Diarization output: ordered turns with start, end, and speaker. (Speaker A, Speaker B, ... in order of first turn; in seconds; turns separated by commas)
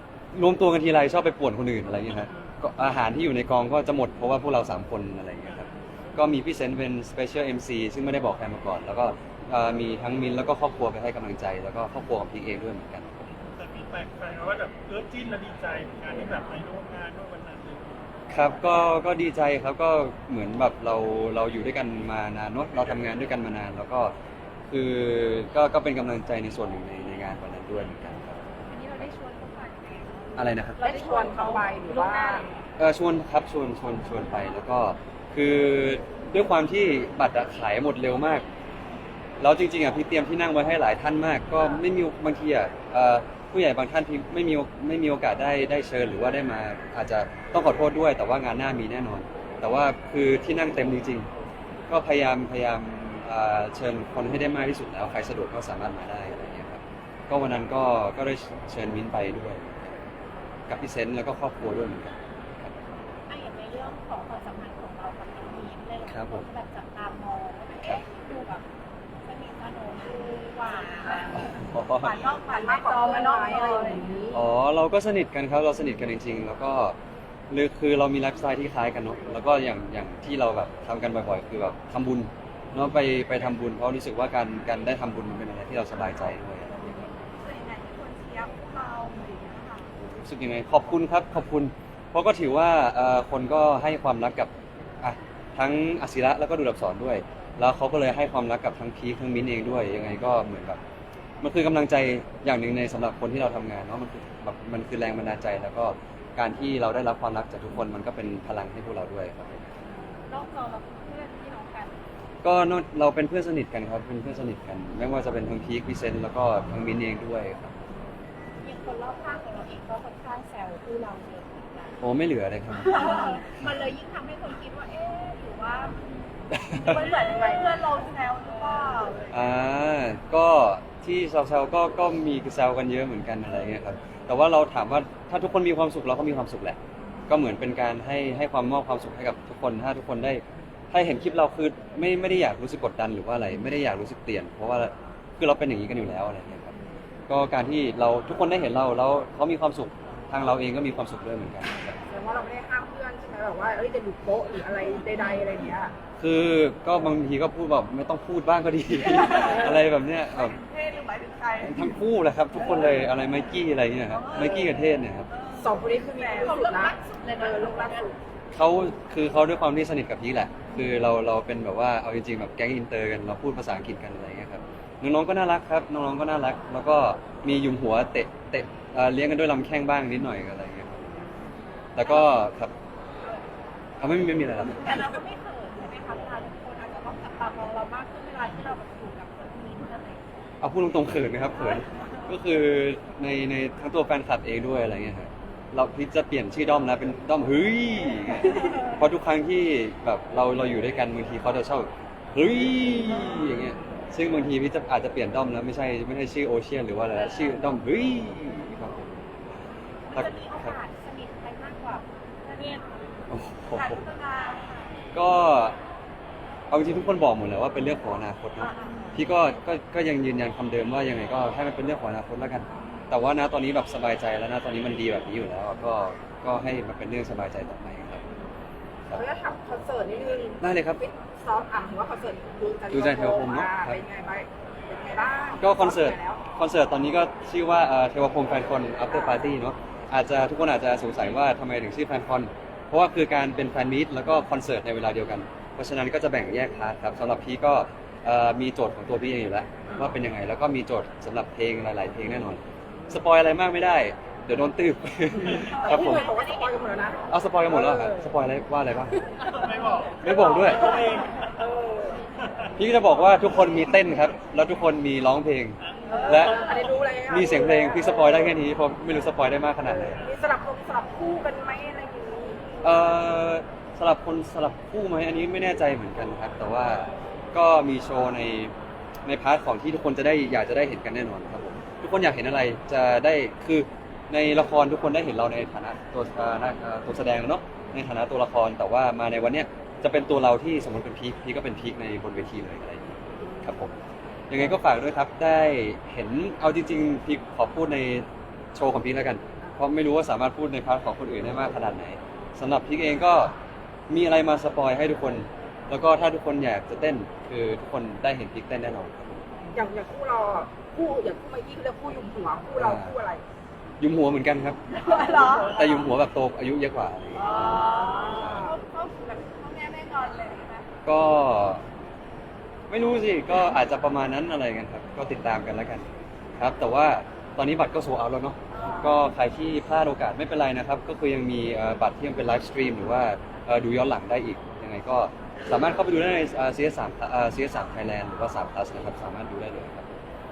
Speaker A: 0.3-13.2, Speaker B: 5.5-5.7, Speaker B: 13.3-18.1, Speaker A: 18.3-24.1, Speaker A: 24.7-29.1, Speaker C: 28.8-29.6, Speaker B: 28.8-30.0, Speaker A: 30.4-30.9, Speaker D: 30.8-32.5, Speaker C: 30.9-31.5, Speaker B: 30.9-32.4, Speaker A: 32.8-38.5, Speaker A: 39.4-51.3, Speaker A: 51.9-59.9, Speaker A: 60.7-62.7, Speaker C: 63.3-68.6, Speaker A: 66.0-66.5, Speaker C: 69.2-74.0, Speaker A: 71.3-72.2, Speaker B: 72.0-74.0, Speaker D: 72.4-74.4, Speaker A: 74.3-77.0, Speaker A: 77.5-86.7, Speaker B: 87.4-89.9, Speaker A: 90.0-94.5, Speaker A: 95.0-100.8, Speaker A: 101.4-109.7, Speaker C: 109.9-112.0, Speaker A: 112.4-117.7, Speaker C: 118.6-122.0, Speaker A: 122.0-123.3, Speaker C: 122.8-129.4, Speaker A: 126.5-127.0, Speaker D: 126.9-127.6, Speaker B: 127.1-127.4, Speaker A: 129.3-136.8, Speaker A: 137.3-146.7, Speaker A: 147.3-152.0, Speaker D: 152.1-155.9, Speaker A: 156.2-160.6, Speaker B: 159.3-159.7, Speaker B: 160.5-161.8, Speaker A: 161.6-165.3, Speaker B: 164.2-164.6, Speaker C: 164.2-164.7, Speaker B: 165.3-166.2, Speaker D: 165.6-168.1, Speaker C: 166.2-168.1, Speaker A: 168.5-181.2, Speaker A: 181.9-182.7, Speaker C: 182.0-182.3, Speaker A: 184.0-185.2, Speaker C: 184.8-190.2, Speaker A: 190.6-209.2, Speaker C: 191.6-192.2, Speaker C: 210.1-212.8, Speaker A: 210.1-210.8, Speaker A: 213.3-214.0, Speaker C: 213.8-214.9, Speaker A: 215.1-215.8, Speaker A: 216.7-228.2, Speaker C: 218.6-219.2, Speaker D: 229.1-236.4, Speaker A: 230.6-231.0, Speaker A: 232.9-234.0, Speaker A: 235.6-256.3, Speaker D: 239.1-239.5, Speaker D: 255.4-258.3, Speaker C: 255.6-256.8, Speaker A: 257.3-259.3, Speaker B: 259.4-261.5, Speaker A: 260.2-260.9, Speaker D: 260.6-262.2, Speaker A: 262.8-266.7, Speaker B: 266.1-266.8, Speaker D: 266.1-268.5, Speaker A: 267.3-270.2, Speaker D: 270.1-272.9, Speaker A: 272.8-278.7, Speaker A: 279.2-293.9, Speaker D: 293.4-293.7, Speaker A: 294.5-303.5, Speaker A: 304.1-309.4, Speaker D: 309.7-313.4, Speaker A: 312.8-313.1, Speaker A: 314.0-314.8, Speaker C: 314.9-315.8, Speaker B: 315.0-316.0, Speaker A: 315.6-318.7, Speaker C: 317.4-320.9, Speaker B: 317.5-318.1, Speaker D: 317.8-318.7, Speaker A: 321.0-321.8, Speaker A: 322.9-326.1, Speaker A: 326.6-340.1, Speaker C: 328.7-329.2